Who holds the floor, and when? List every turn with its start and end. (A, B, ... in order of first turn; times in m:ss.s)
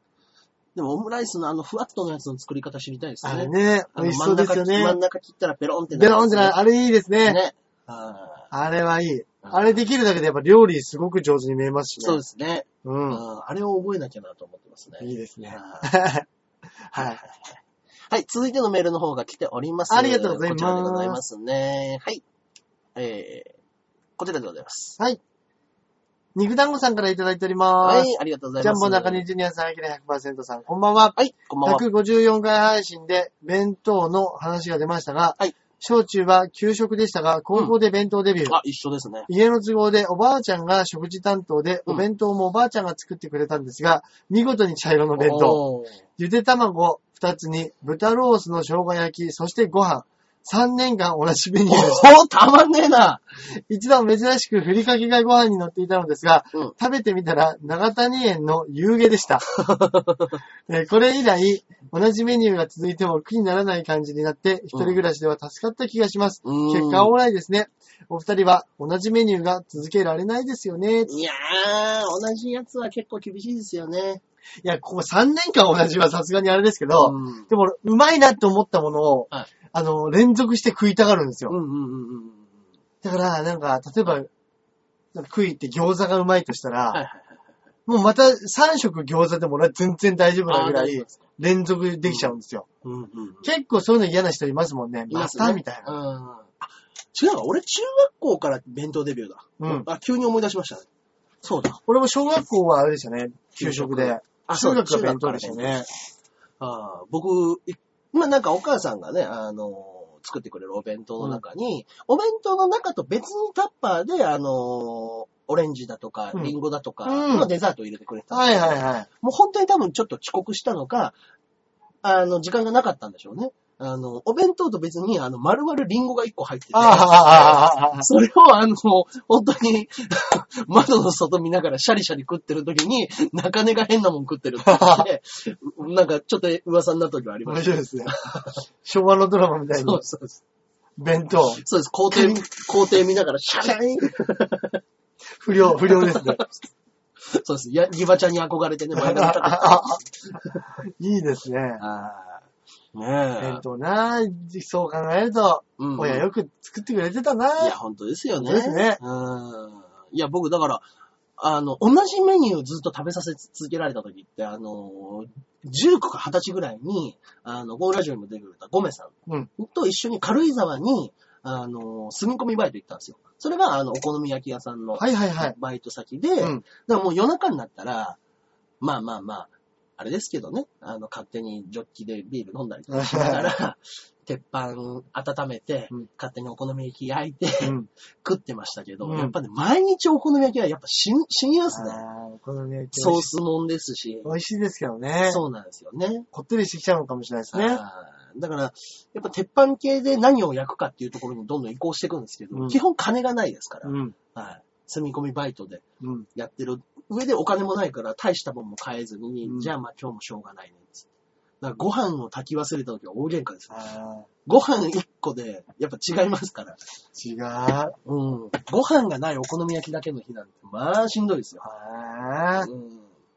0:00.8-0:06.6 A
0:03.2-0:05.0 B
0:05.9-0:07.4 B
0:07.2-0:08.5 A
0:08.5-0:12.2 B
0:09.4-0:09.8 A
0:12.0-0:15.9 A
0:12.8-0:13.2 B
0:15.0-0:16.3 B
0:16.9-0:17.2 B
0:16.9-0:22.2 A
0:19.9-0:21.2 B
0:23.0-0:23.6 A
0:24.2-0:25.0 A
0:26.4-0:38.6 B
0:27.8-0:29.2 A
0:31.2-0:31.8 A
0:38.5-0:39.3 A
0:39.3-0:45.6 B
0:45.2-0:46.0 A
0:46.2-0:52.1 B
0:51.7-0:53.2 A
0:53.6-0:59.4 B
0:59.5-1:00.4 A
1:00.7-1:11.1 B
1:04.7-1:05.0 A
1:06.4-1:07.1 A
1:11.1-1:14.2 A
1:14.6-1:21.6 B
1:16.9-1:17.5 A
1:21.5-1:22.5 A
1:23.0-1:24.3 B
1:25.1-1:27.0 B
1:26.9-1:27.4 A
1:27.9-1:32.7 B
1:30.5-1:31.3 A
1:32.0-1:33.5 A
1:33.4-1:35.9 B
1:35.1-1:40.9 A
1:39.6-1:39.9 B
1:41.4-1:41.8 A
1:41.9-1:45.9 B
1:43.6-1:45.9 A
1:46.6-2:01.2 A
1:57.1-1:57.5 B
1:58.3-1:59.1 B
2:02.0-2:18.6 A
2:06.7-2:08.1 B
2:14.7-2:15.1 B
2:17.5-2:18.2 B
2:18.8-2:20.0 B
2:19.8-2:20.4 A
2:21.0-2:22.4 B
2:21.6-2:24.8 A
2:25.4-2:26.4 B
2:25.8-2:26.5 A
2:27.3-2:30.7 A
2:29.0-2:30.0 B
2:30.8-2:31.8 B
2:31.8-2:33.6 A
2:33.4-2:37.8 B
2:35.8-2:36.3 A
2:37.6-2:40.8 A
2:38.4-2:39.0 B
2:41.4-2:58.2 A
2:55.0-2:55.6 B
2:58.8-3:12.0 A
3:02.9-3:03.5 B
3:07.6-3:07.9 B
3:09.0-3:09.3 B
3:11.7-3:13.3 B
3:12.9-3:14.3 A
3:14.2-3:15.4 B
3:15.3-3:16.3 A
3:16.3-3:17.8 B
3:17.5-3:25.8 A
3:23.8-3:24.1 B
3:26.0-3:26.3 B
3:26.4-3:31.1 A
3:29.4-3:29.7 B
3:31.6-3:33.9 A
3:33.7-3:34.3 B
3:34.5-3:36.8 A
3:37.2-3:38.0 B
3:38.0-3:41.7 A
3:41.6-3:42.7 B
3:42.6-3:43.1 A